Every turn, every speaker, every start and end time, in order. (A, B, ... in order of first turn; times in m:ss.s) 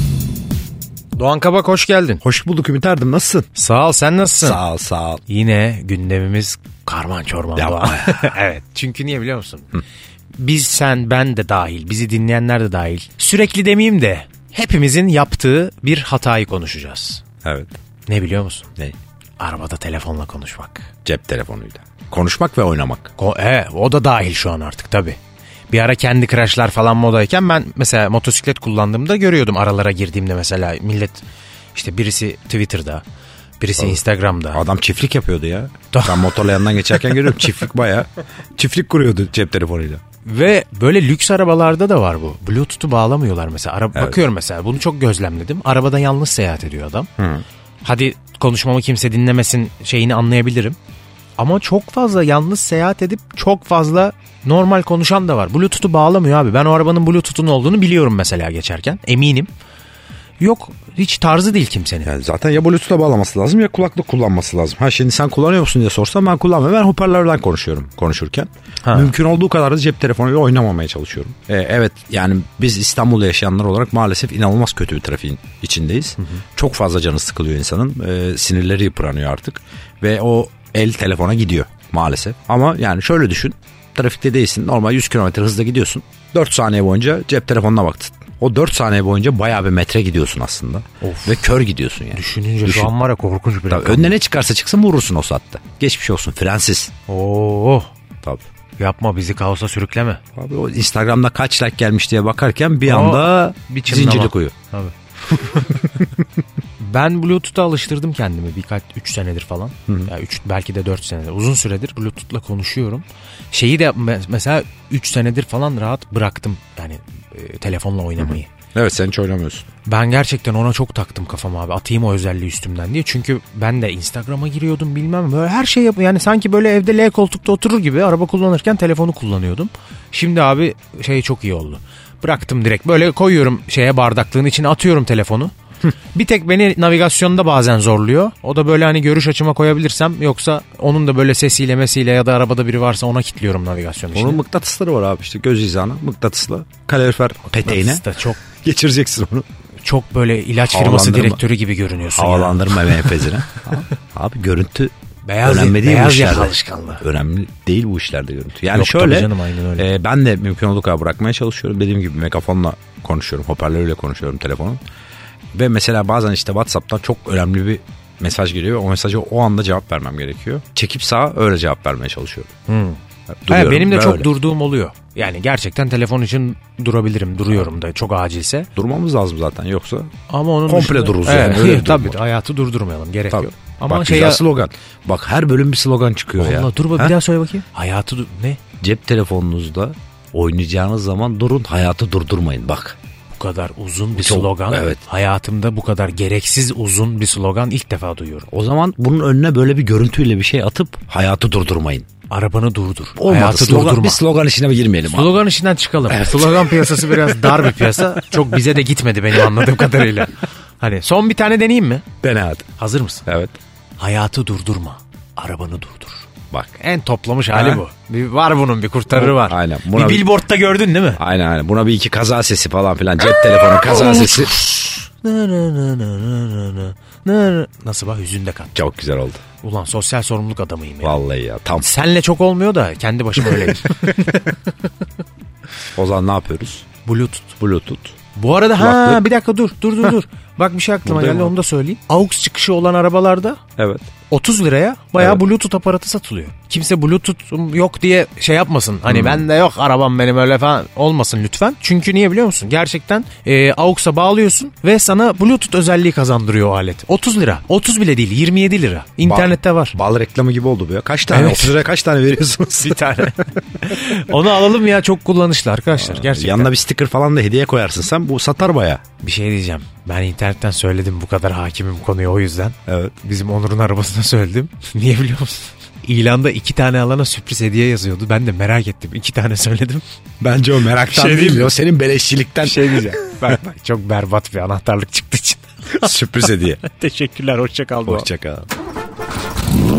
0:01.2-0:02.2 A
0:02.2-0:03.5 B
0:03.6-0:04.6 A
0:04.4-0:05.2 B
0:05.3-0:09.8 A
0:07.6-0:08.3 B
0:10.4-0:17.2 A
0:17.4-0:17.8 B
0:18.1-0:18.7 A
0:19.4-0:20.9 A
0:21.0-0:23.1 B
0:23.2-0:25.2 A
0:25.7-0:31.2 A
0:31.8-0:33.0 A
0:33.6-0:34.6 A
0:34.5-0:40.0 B
0:35.9-0:37.0 A
0:40.2-0:47.1 A
0:47.2-0:47.4 B
0:47.8-0:50.8 A
0:51.4-0:59.5 A
1:00.4-1:02.1 A
1:02.0-1:32.9 B
1:08.8-1:09.2 A
1:31.0-1:31.4 A
1:32.1-1:34.1 A
1:33.7-1:36.9 B
1:37.1-1:37.9 A
1:38.8-1:40.2 A
1:40.4-1:44.5 B
1:42.9-1:46.0 A
1:46.8-1:58.5 A
1:58.2-1:59.6 B
1:59.9-2:15.5 A
2:16.1-2:24.4 A
2:24.1-2:29.5 B
2:27.5-2:28.4 A
2:29.8-2:33.9 A
2:30.6-2:31.4 B
2:32.1-2:34.9 B
2:35.2-2:37.0 A
2:35.4-2:44.8 B
2:38.7-2:39.9 A
2:45.5-2:52.5 B
2:52.7-2:58.7 A
2:53.4-2:54.3 B
2:58.8-3:00.1 B
3:00.3-3:04.4 A
3:00.7-3:02.2 B
3:03.3-3:07.2 B
3:06.4-3:08.6 A
3:08.8-3:13.0 B
3:13.3-3:18.5 A
3:14.2-3:15.0 B
3:18.5-3:22.1 B
3:22.3-3:24.2 A
3:23.2-3:25.3 B
3:25.1-3:32.0 A
3:26.1-3:28.3 B
3:32.2-3:32.7 B
3:32.8-3:33.3 A
3:33.3-3:33.6 B
3:34.0-3:41.2 A
3:37.5-3:37.8 B
3:39.1-3:40.3 B
3:41.2-3:44.6 B
3:43.8-3:48.8 A
3:48.8-3:49.4 B
3:49.6-3:51.2 A
3:51.0-3:51.9 B
3:51.8-3:54.6 A
3:53.8-3:54.1 B
3:56.0-3:56.9 B
3:57.1-3:57.5 A
3:57.6-3:58.2 B
3:58.4-4:03.6 A
3:58.8-3:59.3 B
4:01.1-4:01.6 B
4:03.8-4:04.1 B
4:04.3-4:20.0 A
4:09.1-4:09.5 B
4:19.2-4:23.2 B
4:21.3-4:21.8 A
4:22.8-4:26.7 A
4:25.9-4:29.0 B
4:29.2-4:40.0 A
4:32.9-4:33.1 B
4:40.4-4:43.6 B
4:41.0-4:41.7 A
4:42.6-4:48.3 A
4:46.0-4:46.8 B
4:48.0-4:48.7 B